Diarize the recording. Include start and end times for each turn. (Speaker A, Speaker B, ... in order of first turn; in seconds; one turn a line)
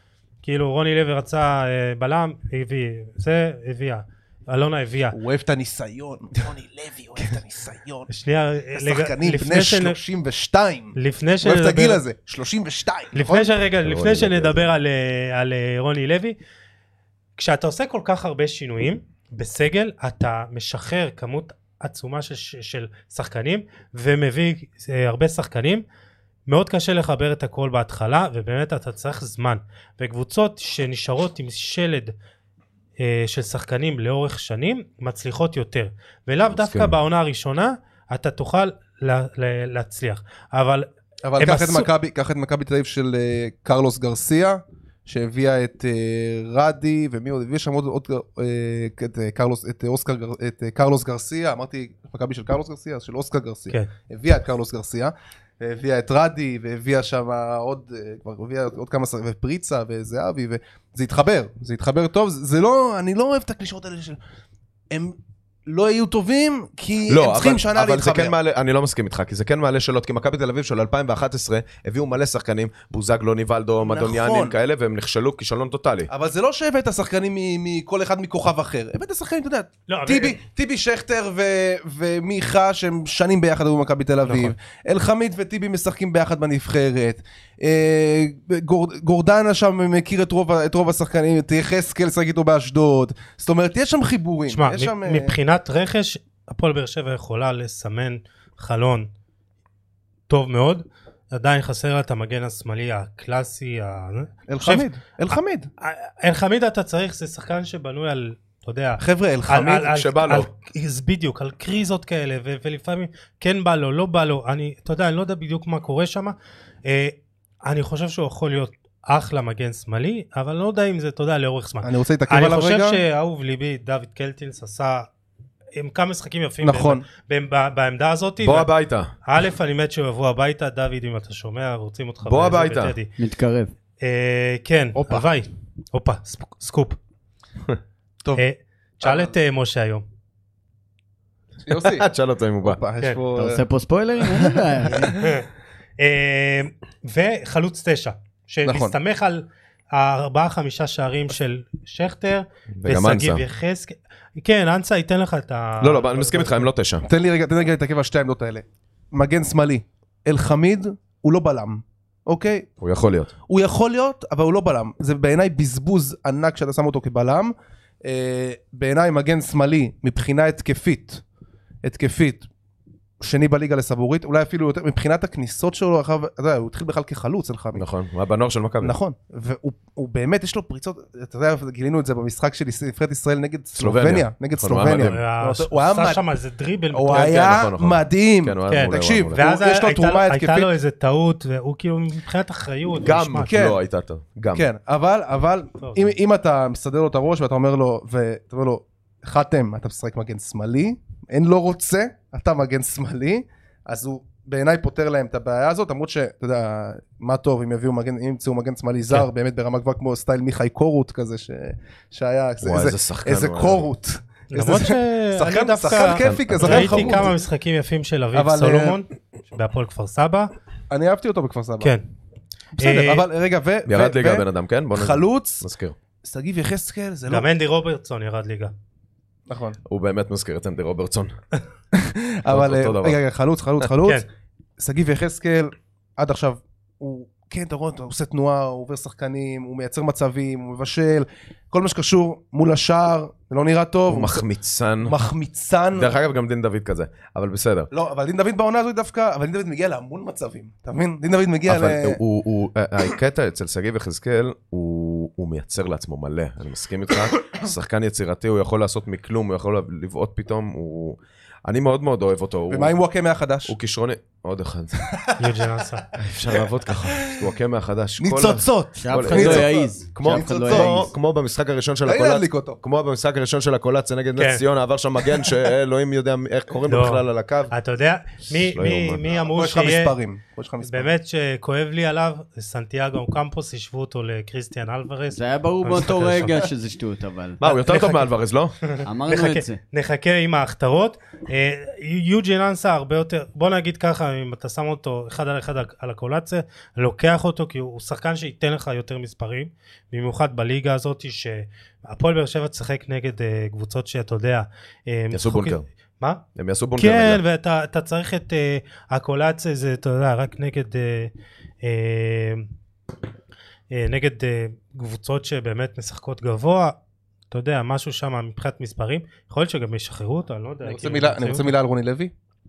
Speaker A: 0.4-5.2
Speaker B: 5.1-8.1
Speaker A: 8.1-10.0
Speaker B: 8.7-13.5
Speaker A: 10.9-12.0
Speaker A: 13.1-16.4
Speaker C: 13.8-14.7
Speaker A: 17.4-25.8
Speaker A: 26.5-32.1
Speaker A: 33.0-41.9
Speaker C: 36.5-37.0
Speaker B: 41.2-64.2
Speaker B: 64.9-68.3
Speaker C: 67.1-76.1
Speaker B: 73.8-74.5
Speaker B: 76.1-95.3
Speaker A: 79.9-80.4
Speaker A: 84.2-84.5
Speaker A: 94.5-99.1
Speaker A: 100.3-104.9
Speaker B: 104.5-105.7
Speaker A: 105.8-125.1
Speaker B: 109.0-109.9
Speaker C: 109.9-110.5
Speaker B: 121.8-123.0
Speaker A: 125.8-128.7
Speaker B: 126.6-127.0
Speaker C: 128.4-129.1
Speaker A: 129.2-133.1
Speaker C: 132.2-132.9
Speaker D: 133.2-133.7
Speaker A: 134.0-137.0
Speaker B: 135.0-135.2
Speaker A: 138.3-140.0
Speaker B: 139.0-139.3
Speaker B: 141.6-142.1
Speaker C: 141.7-142.8
Speaker B: 142.6-143.6
Speaker D: 143.3-145.2
Speaker A: 145.1-145.5
Speaker A: 146.0-156.7
Speaker B: 148.6-148.9
Speaker C: 152.8-153.4
Speaker C: 155.8-157.0
Speaker B: 157.0-162.7
Speaker C: 162.8-163.3
Speaker B: 163.5-171.2
Speaker B: 171.8-172.5
Speaker B: 173.2-177.8
Speaker C: 177.7-178.9
Speaker B: 178.8-186.2
Speaker C: 183.8-185.2
Speaker A: 185.0-187.4
Speaker B: 186.9-190.7
Speaker C: 187.1-189.4
Speaker A: 188.7-193.5
Speaker C: 193.0-194.7
Speaker B: 193.4-193.8
Speaker B: 194.5-217.3
Speaker A: 195.8-196.1
Speaker C: 212.6-213.8
Speaker A: 214.5-220.5
Speaker C: 216.1-217.3
Speaker B: 218.3-219.0
Speaker B: 220.9-221.9
Speaker B: 222.8-225.6
Speaker A: 222.8-223.2
Speaker C: 223.8-225.9
Speaker B: 226.2-227.5
Speaker A: 227.3-228.7
Speaker B: 229.5-229.8
Speaker C: 229.8-231.3
Speaker B: 231.9-234.2
Speaker C: 232.5-233.2
Speaker B: 234.8-244.4
Speaker C: 244.1-245.1
Speaker B: 245.0-246.1
Speaker C: 245.9-247.9
Speaker B: 247.9-252.2
Speaker C: 251.7-262.9
Speaker B: 262.7-263.7
Speaker C: 263.6-265.1
Speaker A: 265.4-266.1
Speaker C: 266.1-277.7
Speaker B: 267.1-267.4
Speaker B: 268.2-271.1
Speaker D: 269.0-271.1
Speaker B: 272.0-272.8
Speaker A: 274.4-274.6
Speaker A: 276.9-280.1
Speaker C: 278.5-279.2
Speaker B: 279.5-281.1
Speaker A: 280.8-286.6
Speaker D: 285.3-287.6
Speaker C: 287.6-288.7
Speaker A: 287.6-288.3
Speaker A: 288.8-306.4
Speaker D: 289.0-289.8
Speaker C: 305.3-305.8
Speaker C: 306.5-307.4
Speaker A: 307.0-312.7
Speaker A: 313.9-317.0
Speaker A: 317.5-321.7
Speaker B: 320.8-322.3